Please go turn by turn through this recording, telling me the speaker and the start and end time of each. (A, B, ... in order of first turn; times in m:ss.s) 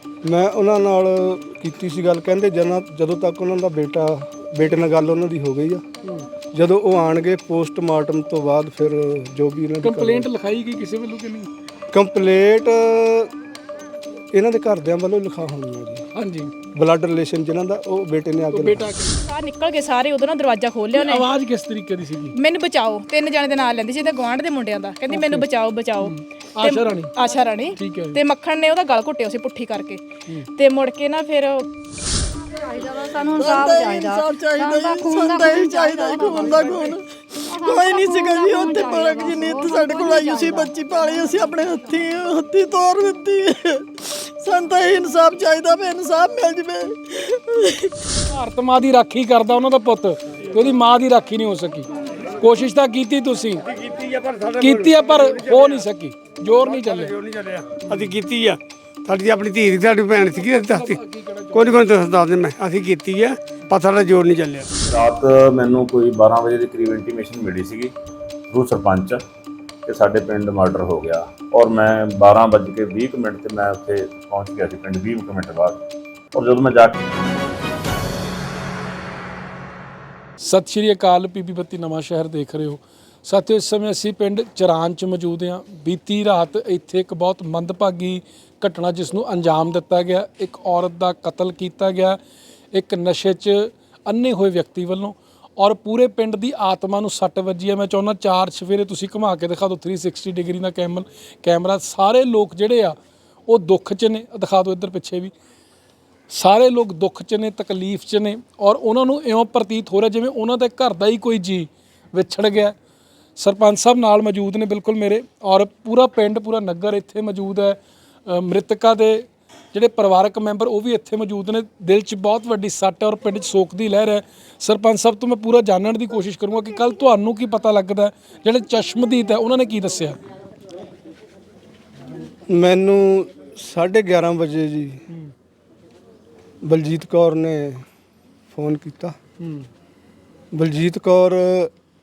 0:00.2-0:05.8 A
0:06.5-0:10.3 A
0:09.8-0:11.5 B
0:11.9-0:13.3 A
0:14.3-0:16.0 A
0:16.1-0:16.5 B
0:16.7-0:18.9 A
0:18.5-0:19.2 B
0:19.2-0:21.3 C
0:20.9-0:22.3 B
0:22.4-0:30.0 C
0:25.1-0:25.4 B
0:26.0-0:27.1 B
0:27.8-0:28.2 B
0:30.6-0:31.7 C
0:32.7-0:36.9 D
0:33.3-0:37.0 E
0:37.5-0:40.7 D
0:37.5-0:47.9 E
0:48.3-0:51.9 B
0:52.4-0:53.6 B
0:53.7-0:55.9 F
0:54.6-0:57.2 B
0:56.5-1:01.0 F
1:00.4-1:01.8 B
1:01.5-1:04.8 F
1:04.8-1:07.9 G
1:08.5-1:09.2 G
1:09.9-1:15.8 G
1:16.3-1:16.9 G
1:20.4-1:32.2 B
1:32.7-1:43.0 B
1:43.5-1:45.3 B
1:46.3-1:52.7 B
1:53.4-2:10.2 B
2:12.5-2:15.0 A
2:16.6-2:17.8 A
2:18.5-2:19.2 A
2:19.4-2:19.6 B
2:20.5-2:21.7 A